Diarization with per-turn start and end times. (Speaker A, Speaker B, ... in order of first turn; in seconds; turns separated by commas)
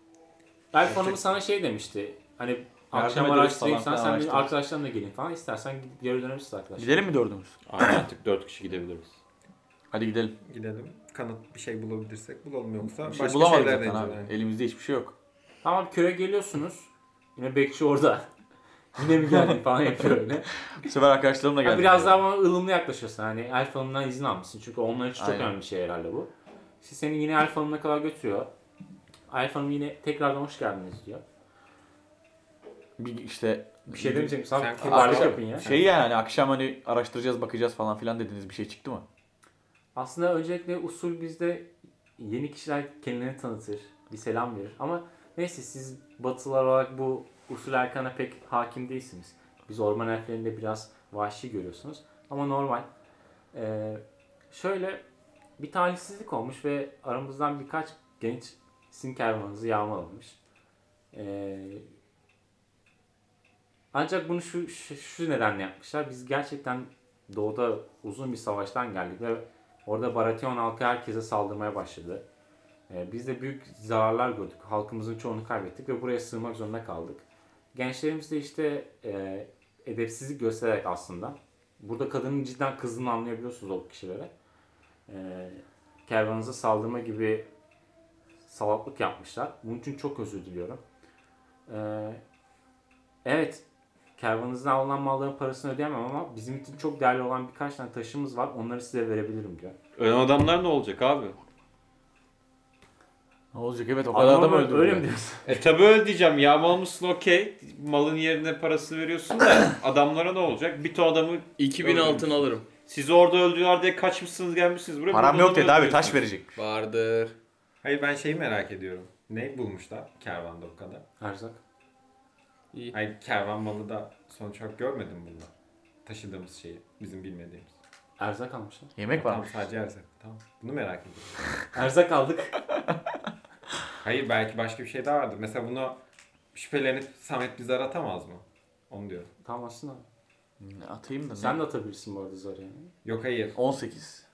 Speaker A: 0.7-7.1, Speaker B: 2.9-4.5, Speaker B: 6.8-8.0, Speaker C: 7.7-9.2, Speaker B: 9.9-10.3, Speaker D: 10.4-14.3, Speaker B: 13.0-15.1, Speaker A: 15.6-18.3, Speaker A: 18.9-20.5, Speaker B: 20.8-22.2, Speaker A: 21.6-26.3, Speaker B: 25.2-25.5, Speaker A: 26.8-28.5, Speaker A: 29.3-31.2, Speaker B: 33.0-39.0, Speaker A: 33.9-35.7, Speaker D: 34.5-35.9, Speaker A: 39.9-52.9, Speaker A: 53.5-55.0, Speaker A: 55.6-60.4, Speaker A: 61.1-61.9, Speaker A: 63.9-72.2, Speaker A: 72.9-77.2, Speaker A: 77.7-84.3, Speaker A: 85.1-87.5, Speaker A: 88.5-90.8, Speaker A: 91.7-92.2, Speaker A: 93.2-93.6, Speaker A: 94.2-99.8, Speaker C: 100.0-101.3, Speaker B: 103.5-105.1, Speaker A: 104.1-105.6, Speaker C: 105.4-116.2, Speaker E: 111.6-112.7, Speaker B: 115.1-116.5, Speaker E: 116.5-117.3, Speaker D: 117.8-121.0, Speaker A: 121.2-121.6, Speaker D: 122.9-125.5, Speaker D: 126.0-127.7, Speaker A: 128.2-128.9, Speaker B: 129.0-129.7, Speaker D: 129.2-131.4, Speaker A: 131.7-132.5, Speaker D: 134.0-136.0, Speaker D: 136.5-139.3, Speaker A: 139.4-140.1, Speaker B: 140.6-141.6, Speaker A: 141.3-142.9, Speaker D: 143.0-143.6, Speaker B: 143.6-144.2